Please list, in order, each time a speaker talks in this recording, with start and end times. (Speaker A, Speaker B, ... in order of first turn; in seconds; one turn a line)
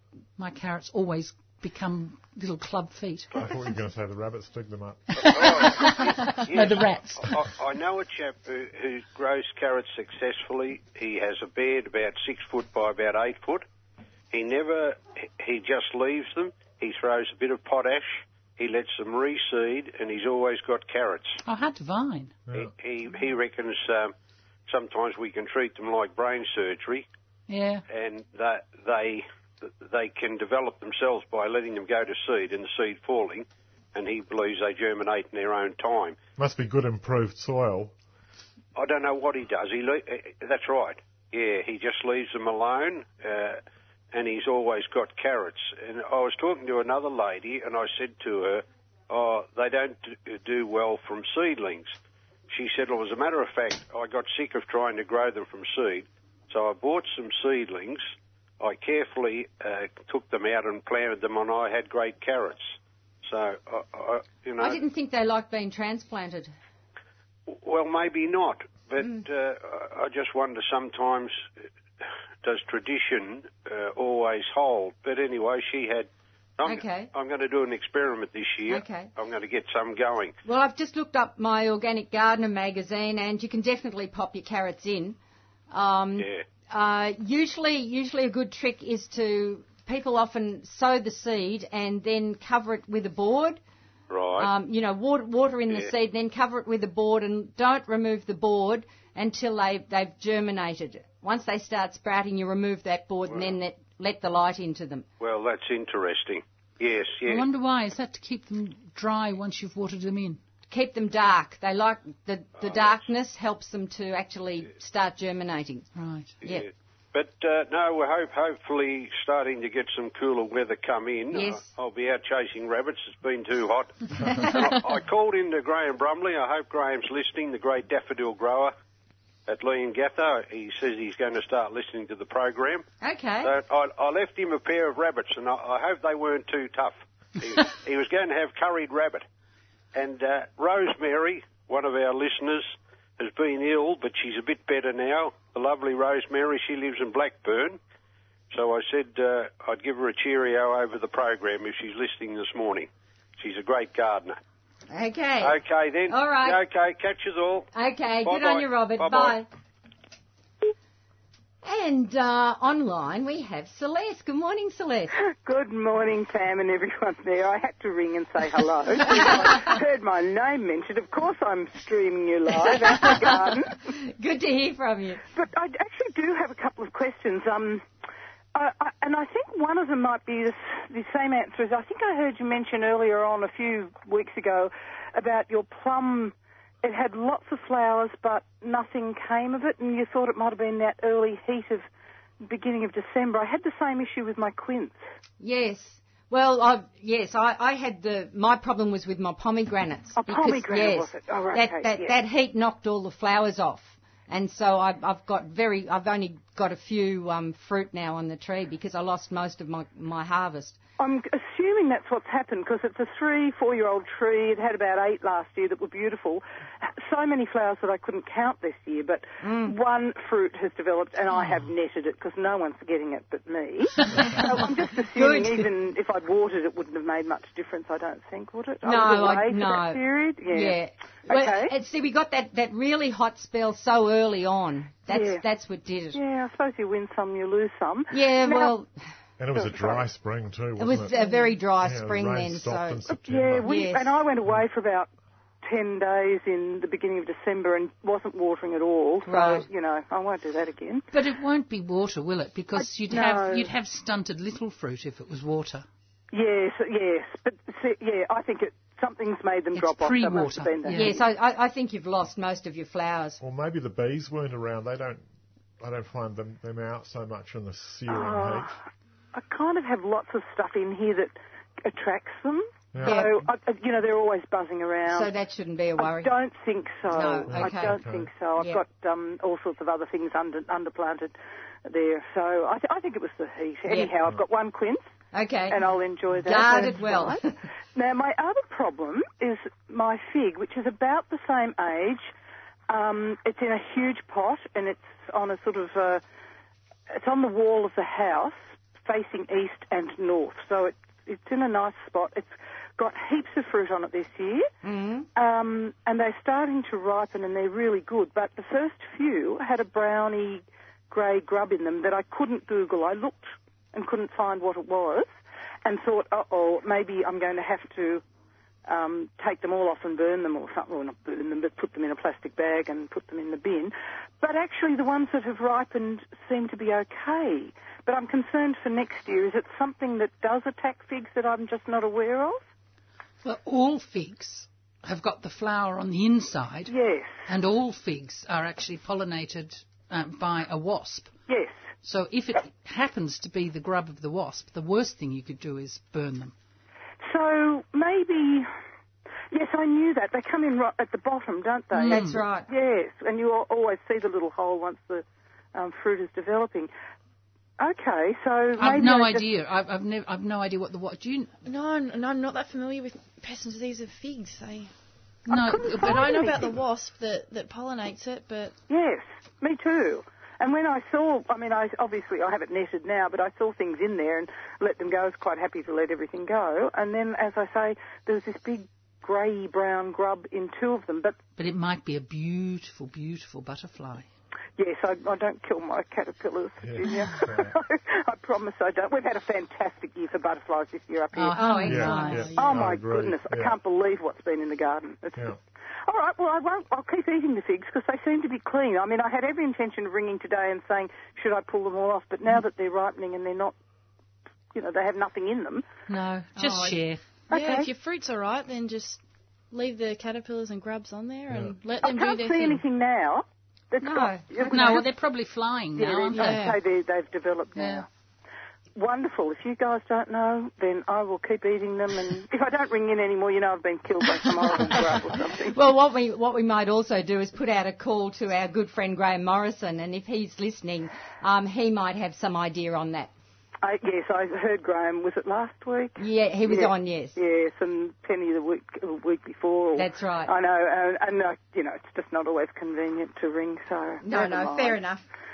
Speaker A: 0.4-3.3
Speaker B: 3.4-5.7
Speaker A: 5.2-7.4
Speaker C: 5.2-13.6
Speaker C: 14.3-21.4
Speaker A: 21.4-22.4
Speaker C: 22.5-24.1
Speaker C: 24.7-27.1
Speaker A: 27.5-27.8
Speaker C: 27.9-36.2
Speaker B: 36.4-37.9
Speaker C: 38.8-43.6
Speaker C: 44.1-51.9
Speaker C: 52.5-58.0
Speaker C: 58.6-64.8
Speaker D: 64.6-66.5
Speaker C: 67.5-71.5
Speaker C: 72.4-80.3
Speaker D: 76.6-77.1
Speaker D: 78.7-79.1
Speaker D: 80.4-85.2
Speaker D: 85.7-93.6
Speaker C: 86.2-86.4
Speaker C: 94.1-94.5
Speaker D: 94.4-105.0
Speaker C: 105.2-107.4
Speaker A: 107.2-110.4
Speaker D: 110.7-115.9
Speaker C: 112.6-113.0
Speaker A: 116.0-116.3
Speaker D: 116.4-116.7
Speaker C: 116.4-128.7
Speaker D: 121.3-121.7
Speaker D: 124.2-124.6
Speaker C: 129.5-132.9
Speaker D: 133.0-133.5
Speaker C: 133.4-139.2
Speaker C: 139.9-147.8
Speaker C: 148.5-154.4
Speaker D: 154.9-156.6
Speaker C: 155.4-157.7
Speaker D: 157.7-159.5
Speaker C: 158.2-159.4
Speaker D: 161.6-165.1
Speaker E: 165.2-173.8
Speaker D: 169.1-169.6
Speaker D: 172.6-175.2
Speaker E: 175.3-177.8
Speaker E: 178.5-191.8
Speaker E: 192.4-195.0
Speaker D: 195.4-210.8
Speaker E: 200.2-202.1
Speaker E: 211.0-231.7
Speaker D: 219.4-219.7
Speaker D: 225.1-225.7
Speaker D: 228.8-236.2
Speaker E: 235.1-235.4
Speaker E: 236.1-238.8
Speaker D: 238.1-238.9
Speaker B: 239.4-241.2
Speaker E: 239.5-240.0
Speaker D: 240.8-244.1
Speaker E: 241.2-241.5
Speaker B: 241.8-243.7
Speaker E: 243.1-245.1
Speaker E: 245.6-251.1
Speaker D: 249.2-249.6
Speaker A: 251.1-255.8
Speaker E: 253.1-253.7
Speaker E: 256.3-261.2
Speaker A: 259.7-261.2
Speaker D: 260.9-263.4
Speaker B: 263.4-265.2
Speaker B: 265.8-268.7
Speaker E: 268.1-268.8
Speaker E: 269.3-275.3
Speaker B: 272.9-273.2
Speaker D: 273.0-273.4
Speaker D: 275.1-276.3
Speaker E: 276.0-285.1
Speaker D: 277.1-278.0
Speaker B: 277.5-278.3
Speaker D: 283.9-284.1
Speaker D: 285.3-285.8
Speaker E: 285.7-292.3
Speaker D: 286.3-287.5
Speaker E: 292.9-296.2
Speaker E: 297.1-304.7
Speaker D: 304.8-305.3
Speaker E: 305.3-315.3
Speaker E: 315.8-318.2
Speaker E: 318.9-332.6
Speaker A: 333.4-336.9
Speaker E: 336.9-337.5
Speaker A: 337.5-341.3
Speaker E: 341.5-341.8
Speaker A: 342.0-346.5
Speaker E: 347.2-348.7
Speaker E: 349.5-356.9
Speaker A: 351.9-352.4
Speaker D: 352.0-352.7
Speaker E: 357.8-359.4
Speaker A: 358.8-361.5
Speaker F: 361.6-364.9
Speaker A: 365.5-366.4
Speaker E: 365.5-366.7
Speaker F: 365.7-368.8
Speaker E: 368.9-381.4
Speaker A: 381.6-384.3
Speaker E: 384.8-403.7
Speaker B: 386.8-387.8
Speaker A: 391.3-392.5
Speaker D: 391.6-392.5
Speaker B: 391.9-393.8
Speaker E: 404.7-405.9
Speaker A: 406.1-407.2
Speaker F: 407.5-412.8
Speaker E: 407.5-407.9
Speaker B: 411.5-411.7
Speaker E: 412.0-415.1
Speaker D: 414.0-414.7
Speaker A: 414.7-416.8
Speaker E: 415.9-418.1
Speaker F: 416.3-416.8
Speaker A: 417.8-418.0
Speaker E: 418.9-425.8
Speaker D: 425.7-433.3
Speaker E: 433.8-445.0
Speaker D: 436.2-437.3
Speaker D: 439.9-440.5
Speaker D: 444.2-445.2